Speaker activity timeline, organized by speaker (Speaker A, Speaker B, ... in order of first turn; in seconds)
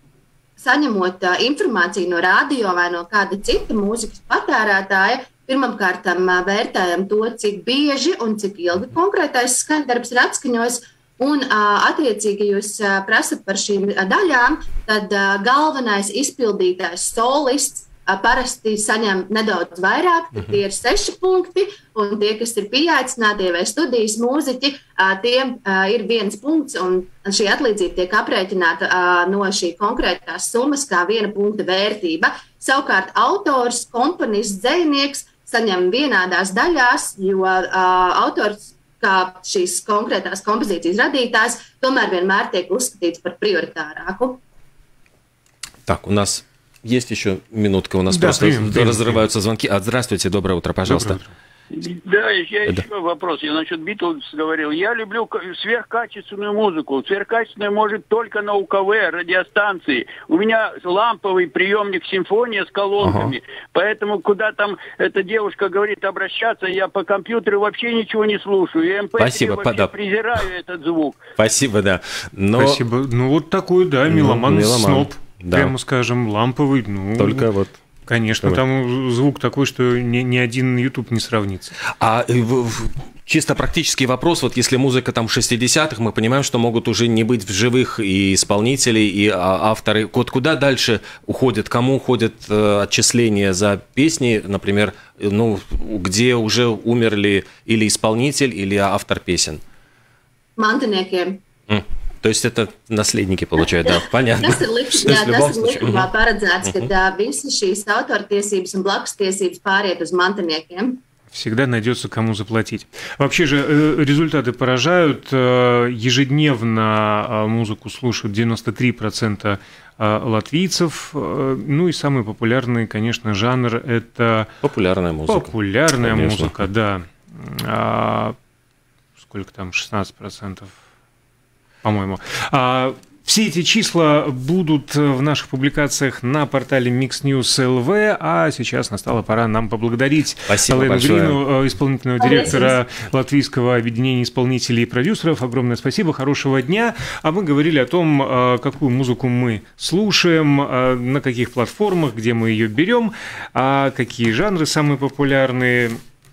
Speaker A: 0.6-44.4, 100.6-101.4, 104.4-111.0, 142.2-142.7
Speaker B: 45.9-51.2, 63.0-63.3, 69.2-69.9, 71.4-72.8, 74.1-75.7, 77.2-77.8, 82.0-99.6, 101.7-106.1, 124.6-126.5, 140.5-141.4
Speaker C: 48.1-49.2, 50.9-51.3, 72.6-77.5, 78.1-81.8, 111.3-124.5, 125.3-128.3, 129.2-130.7, 131.8-156.0
Speaker D: 51.7-71.2